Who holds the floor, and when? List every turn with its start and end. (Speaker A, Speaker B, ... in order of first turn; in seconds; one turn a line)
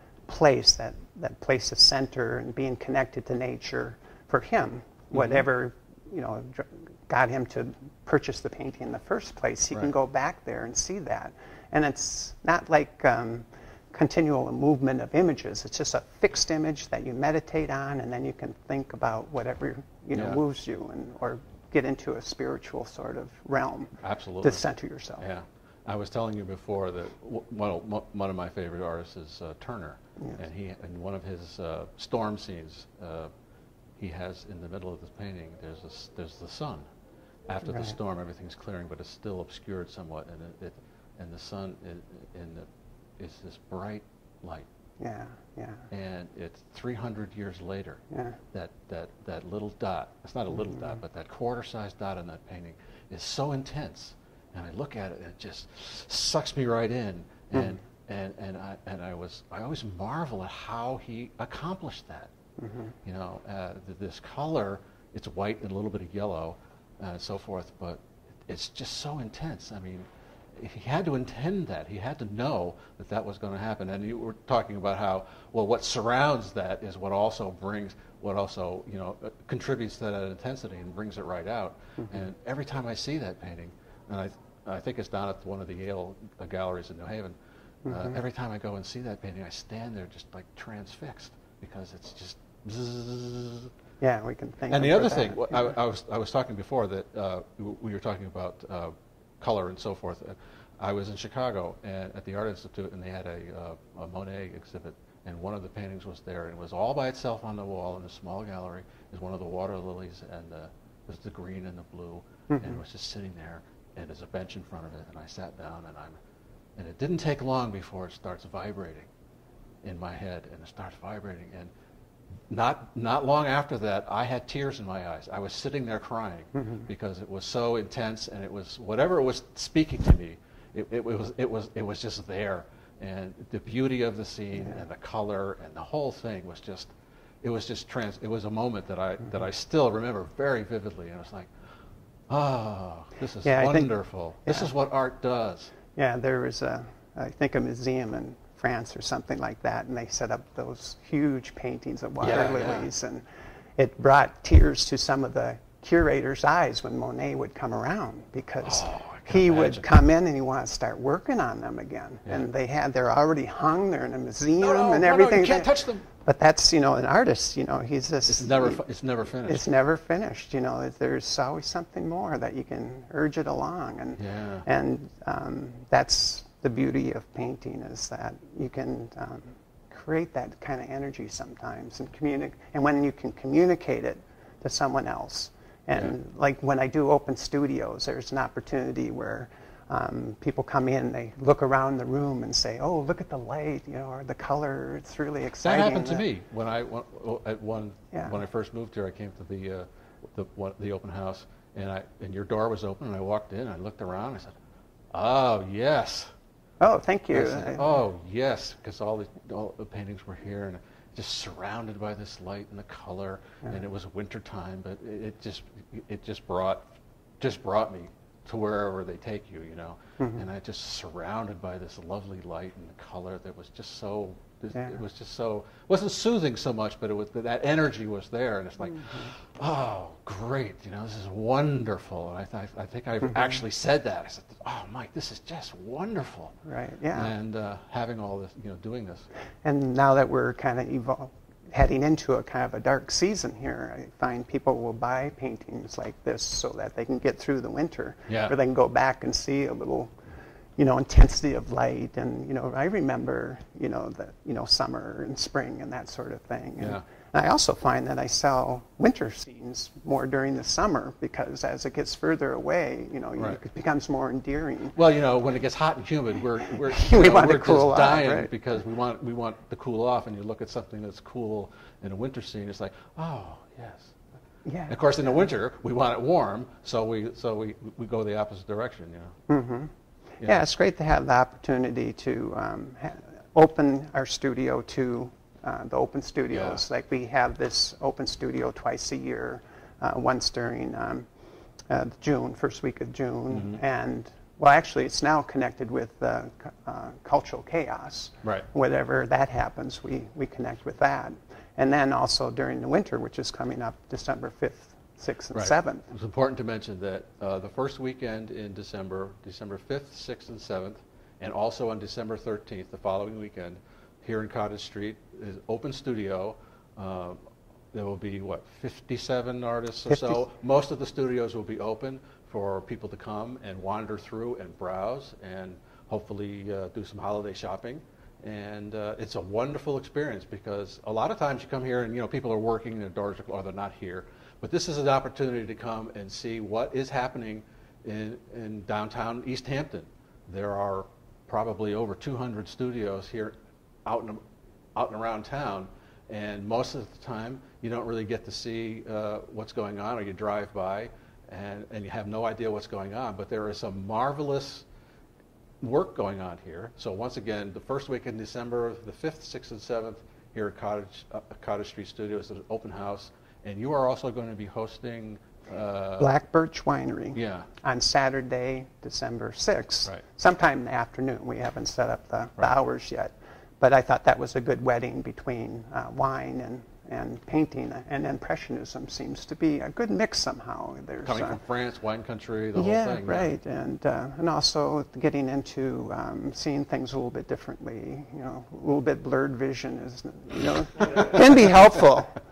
Speaker A: 0.3-25.3
Speaker B: 5.1-5.5
Speaker B: 20.1-20.4
Speaker B: 24.0-24.6
Speaker B: 25.2-33.3
Speaker B: 34.0-36.9
Speaker B: 37.5-44.7
Speaker A: 37.7-38.0
Speaker A: 45.0-45.9
Speaker B: 45.9-48.0
Speaker A: 48.1-48.4
Speaker B: 48.5-62.3
Speaker A: 57.5-57.8
Speaker A: 62.6-63.0
Speaker B: 63.0-87.3
Speaker A: 87.9-88.2
Speaker B: 87.9-93.7
Speaker A: 94.0-95.8
Speaker B: 94.7-116.2
Speaker A: 112.5-112.8
Speaker B: 116.8-119.1
Speaker B: 119.8-121.7
Speaker B: 122.5-141.5
Speaker A: 126.6-126.9
Speaker B: 142.3-145.7
Speaker A: 143.4-143.9
Speaker A: 144.5-144.7
Speaker A: 145.9-153.2
Speaker B: 152.2-152.9
Speaker A: 153.8-168.8
Speaker B: 158.6-159.9
Speaker B: 164.6-166.1
Speaker B: 168.3-169.7
Speaker A: 169.4-196.2
Speaker B: 174.2-174.7
Speaker B: 195.6-204.6
Speaker B: 205.1-206.3
Speaker A: 206.8-207.9
Speaker B: 207.3-216.9
Speaker B: 217.4-236.6
Speaker A: 220.2-220.4
Speaker A: 228.9-229.3
Speaker A: 233.2-233.6
Speaker A: 236.7-237.3
Speaker B: 237.1-239.3
Speaker A: 239.6-250.1
Speaker B: 248.3-248.6
Speaker A: 250.8-264.9
Speaker B: 256.8-257.0
Speaker B: 264.9-274.1
Speaker A: 266.7-268.5
Speaker A: 274.7-275.4
Speaker B: 274.9-279.4
Speaker A: 279.5-291.3
Speaker B: 286.5-286.8
Speaker A: 291.9-306.1
Speaker B: 293.5-293.8
Speaker B: 305.5-317.4
Speaker B: 317.9-344.4
Speaker A: 320.1-320.4
Speaker B: 344.9-354.9
Speaker B: 355.8-366.3
Speaker A: 366.2-381.6
Speaker B: 367.4-367.7
Speaker B: 381.2-383.5
Speaker A: 382.8-392.4